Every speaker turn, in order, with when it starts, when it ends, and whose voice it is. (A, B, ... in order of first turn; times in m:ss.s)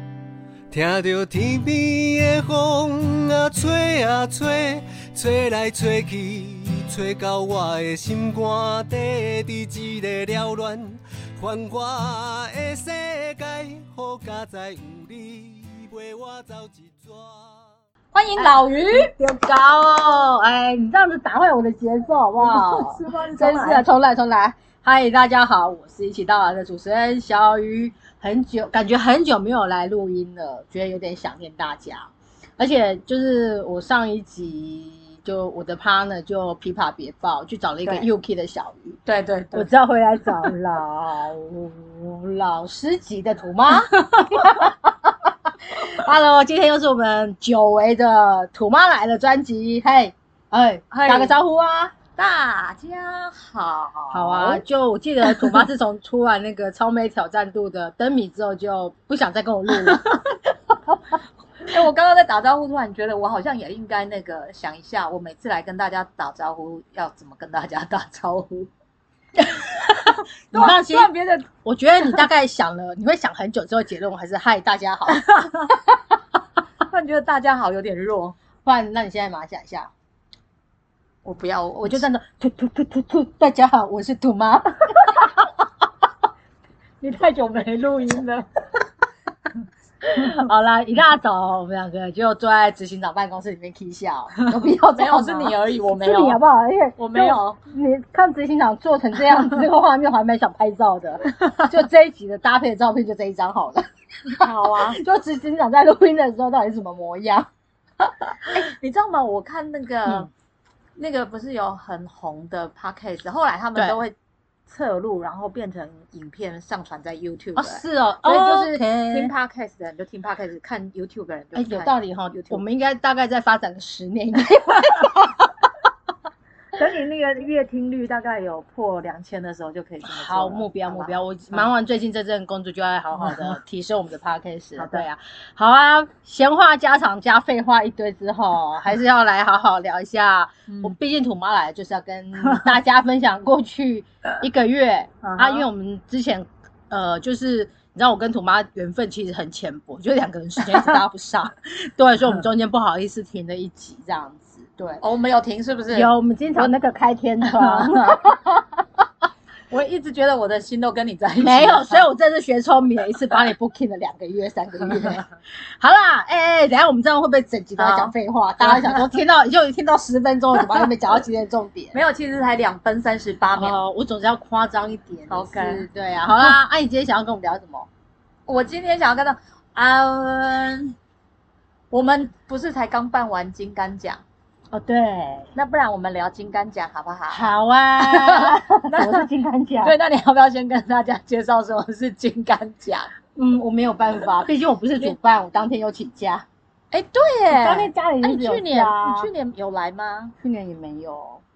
0:00.7-0:17.6 A
0:18.1-0:19.1 B
0:18.4-0:39.0 C
0:22.4-0:23.9 B
0:39.1-0:39.7 B
0:39.5-0:52.0 C
0:43.9-0:44.6 B
0:50.9-0:51.3 B
0:52.2-0:54.6 B
0:54.1-1:00.1 C
0:55.2-0:55.6 B
0:59.8-1:00.4 B
1:00.9-1:01.2 C
1:01.6-1:08.7 B
1:09.4-1:11.5 B
1:10.5-1:11.1 C
1:11.6-1:15.2 C
1:15.1-1:15.8 B
1:16.9-1:18.4 B
1:18.6-1:19.9 C
1:21.2-1:22.1 B
1:21.8-1:25.5 C
1:27.0-1:28.6 B
1:30.0-1:47.5 C
1:34.4-1:36.4 B
1:37.0-1:37.6 B
1:41.3-1:41.7 B
1:44.4-1:45.0 B
1:48.3-1:50.3 B
1:51.0-1:54.2 B
1:54.7-2:02.6 B
1:57.6-1:59.3 C
2:01.6-2:05.4 C
2:06.7-2:11.7 B
2:10.1-2:35.0 C
2:13.2-2:13.6 B
2:14.8-2:15.1 B
2:20.7-2:21.0 B
2:22.4-2:22.7 B
2:25.2-2:25.6 B
2:34.9-2:36.7 B
2:35.9-2:39.0 C
2:37.4-2:38.2 B
2:39.7-2:42.1 B
2:41.4-2:52.0 C
2:47.8-2:49.1 B
2:51.9-2:53.8 B
2:53.6-2:57.9 C
2:55.3-2:55.9 B
2:58.5-3:01.0 B
3:01.9-3:04.2 B
3:04.7-3:05.5 C
3:05.6-3:07.5 B
3:07.3-3:10.0 C
3:08.0-3:09.3 B
3:09.8-3:13.1 B
3:13.4-3:16.5 C
3:16.9-3:20.3 B
3:17.5-3:19.3 C
3:20.4-3:21.4 C